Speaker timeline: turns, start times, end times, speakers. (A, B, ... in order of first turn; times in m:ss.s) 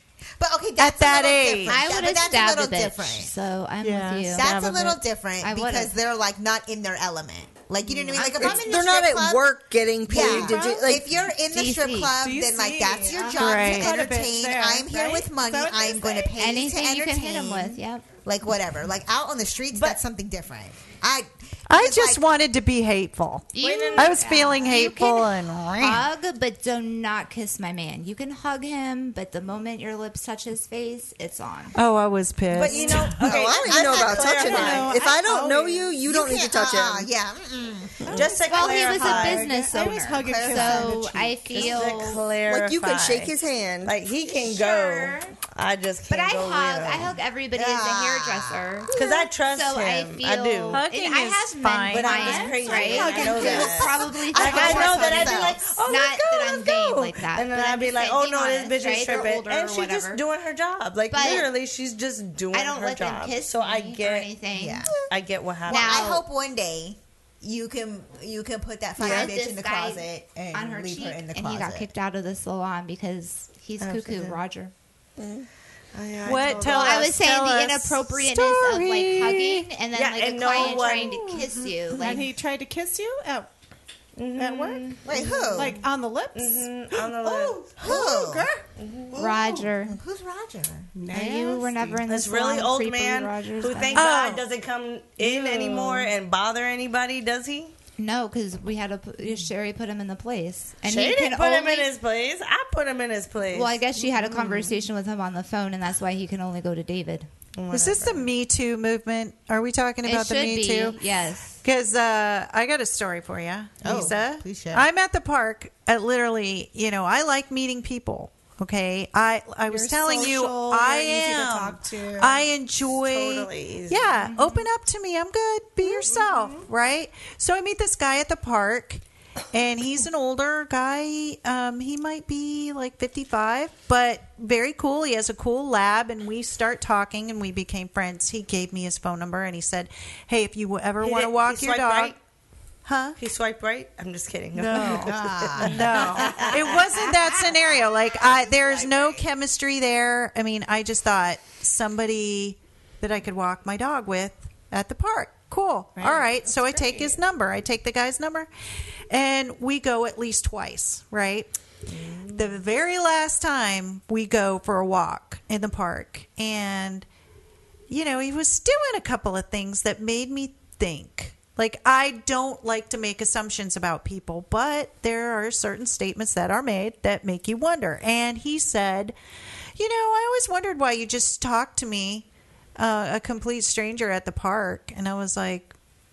0:00.4-0:03.3 A
0:00.8-0:01.8 B
0:01.7-0:04.5 C
0:03.8-0:05.0 B
0:04.3-0:09.5 A
0:05.4-0:05.9 C
0:08.1-0:08.6 D
0:08.2-0:11.0 E
0:10.0-0:22.2 A
0:10.1-0:10.8 D
0:11.5-0:12.2 C
0:12.2-0:16.4 D
0:13.3-0:14.0 B
0:16.4-0:18.1 C
0:19.7-0:20.0 F
0:21.7-0:26.0 B
0:23.5-0:31.8 C
0:23.6-0:24.2 F
0:31.7-0:33.2 B
0:32.5-0:35.0 F
0:33.1-0:35.0 A
0:33.2-0:37.1 E
0:35.2-0:35.8 D
0:36.0-0:38.9 A
0:38.1-0:39.5 F
0:38.2-0:41.4 D
0:38.4-0:42.3 C
0:40.1-0:41.2 A
0:41.5-0:43.3 F
0:42.4-0:44.0 E
0:43.8-0:47.2 F
0:44.2-0:45.4 C
0:46.1-1:00.2 C
0:47.5-0:48.9 A
0:48.9-0:50.8 F
0:50.7-0:52.5 B
0:51.9-1:04.4 F
0:52.7-0:53.8 D
0:52.8-0:55.8 A
1:01.1-1:01.5 C
1:02.5-1:05.0 C
1:04.5-1:04.9 A
1:05.0-1:06.1 F
1:05.6-1:06.2 C
1:05.6-1:11.9 A
1:09.0-1:14.7 C
1:13.8-1:14.4 F
1:15.2-1:15.5 E
1:15.9-1:17.1 F
1:16.2-1:19.7 B
1:16.6-1:22.3 C
1:19.9-1:21.4 F
1:21.9-1:23.5 D
1:24.2-1:25.8 F
1:24.4-1:24.7 D
1:25.0-1:25.8 A
1:25.5-1:28.5 D
1:26.3-1:27.7 F
1:27.8-1:28.5 A
1:28.8-1:29.4 F
1:29.1-1:30.0 C
1:29.1-1:29.4 D
1:29.9-1:30.9 A
1:30.9-1:31.9 D
1:31.1-1:34.2 C
1:32.0-1:37.7 F
1:33.9-1:34.4 B
1:35.2-1:36.0 D
1:38.0-1:41.9 C
1:40.8-1:44.8 F
1:43.5-1:47.3 C
1:47.5-1:48.3 F
1:47.7-1:51.0 B
1:50.0-1:51.6 C
1:51.6-2:22.2 B
1:53.8-1:54.8 A
1:59.6-2:02.5 D
2:02.9-2:04.3 F
2:04.2-2:04.6 C
2:05.8-2:06.6 D
2:21.0-2:22.2 F
2:22.8-2:23.2 B
2:23.2-2:26.9 F
2:24.5-2:38.5 B
2:24.9-2:26.5 A
2:36.0-2:37.2 D
2:39.1-2:41.5 B
2:41.9-2:42.5 F
2:42.3-2:47.0 B
2:47.9-2:59.1 B
2:59.8-3:02.2 B
3:02.8-3:05.7 B